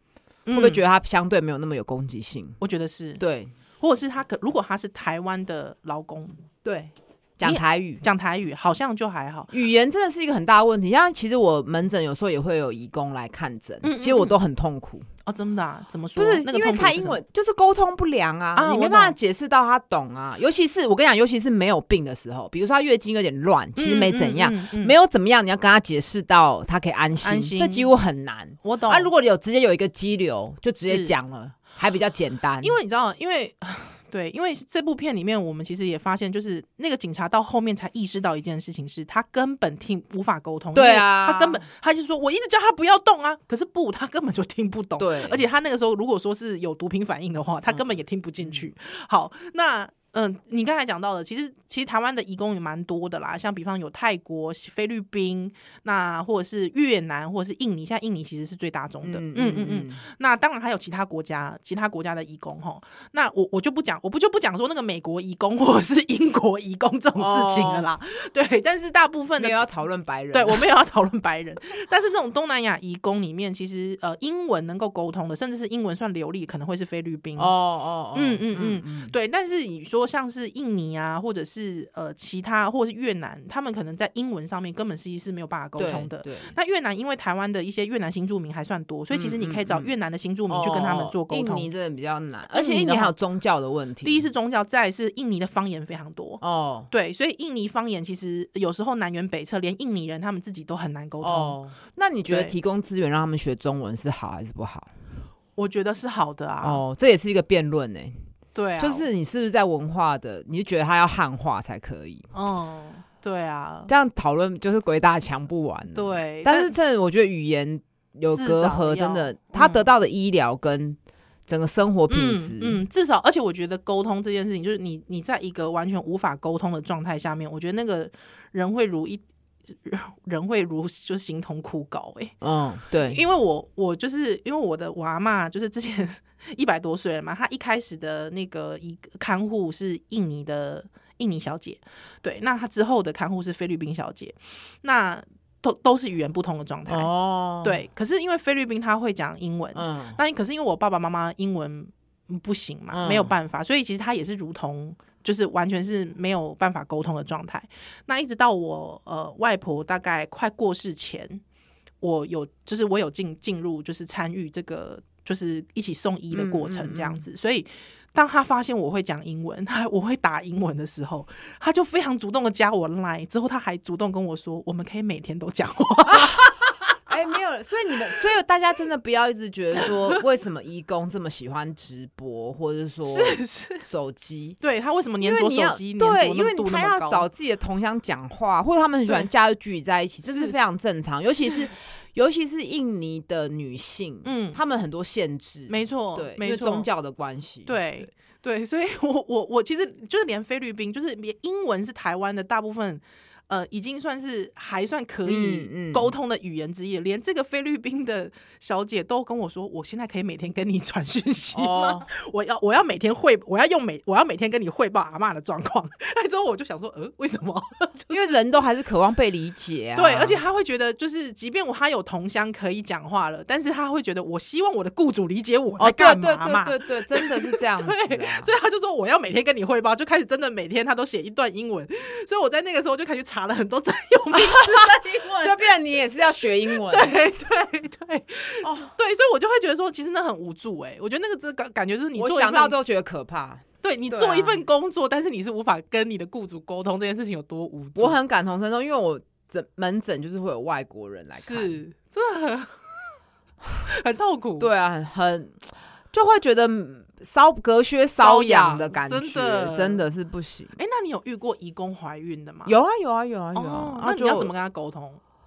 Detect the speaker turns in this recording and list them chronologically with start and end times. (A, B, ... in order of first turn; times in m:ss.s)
0:00.5-0:00.8 A
0:00.5-0:02.6 B
0:02.6-0:03.2 A
0:03.2-0:03.5 B
0:03.8-0:06.4 A
0:06.6-0:08.0 B
0:07.4-0:09.5 A
0:09.5-0:15.1 B
0:13.8-0:14.4 A
0:15.2-0:17.2 A
0:16.2-0:32.8 B
0:18.6-0:19.2 A
0:23.8-0:25.0 A
0:27.2-0:27.9 A
0:28.6-0:29.1 A
0:30.8-0:31.1 A
0:32.6-1:09.6 A
0:40.7-0:41.6 B
0:45.0-0:45.4 B
0:59.0-1:00.0 B
1:07.2-1:07.9 B
1:09.4-1:10.6 B
1:10.3-1:17.5 A
1:17.4-1:19.1 B
1:18.1-1:31.7 A
1:25.8-1:26.5 B
1:29.1-1:29.9 B
1:30.5-1:34.3 B
1:32.5-1:33.1 A
1:34.0-1:41.6 A
1:36.4-1:36.9 B
1:41.2-1:44.9 B
1:42.3-1:42.6 A
1:45.6-1:46.8 A
1:46.6-1:48.3 B
1:48.6-1:49.1 A
1:48.8-1:52.3 B
1:52.3-1:53.9 A
1:53.9-2:02.8 B
1:56.0-1:56.7 A
1:58.3-1:59.9 A
2:02.1-2:12.4 A
2:12.4-2:13.2 B
2:13.0-2:27.1 A
2:26.9-2:27.8 B
2:27.6-2:41.4 A
2:29.8-2:30.2 B
2:32.9-2:33.3 B
2:42.0-2:56.9 A
2:46.3-2:47.2 B
2:56.1-2:56.5 B
2:57.1-3:04.6 B
3:03.0-3:03.8 A
3:04.6-3:07.3 A
3:05.2-3:17.8 B
3:10.3-3:10.6 A
3:11.4-3:11.7 A
3:14.2-3:14.6 A
3:15.7-3:16.9 A
3:17.7-3:38.2 A
3:25.2-3:26.1 B
3:31.5-3:32.1 B
3:38.1-3:40.4 B
3:40.0-3:55.7 A
3:45.8-3:48.5 B
3:54.3-3:57.2 B
3:56.7-4:02.8 A
3:58.6-3:58.9 B
4:02.2-4:04.6 B
4:03.8-4:08.2 A
4:08.0-4:11.8 B
4:11.4-4:12.9 A
4:13.9-4:14.7 A
4:14.6-4:20.8 B
4:18.2-4:20.0 A
4:20.8-4:22.7 A
4:22.7-4:24.5 B
4:23.6-4:25.2 A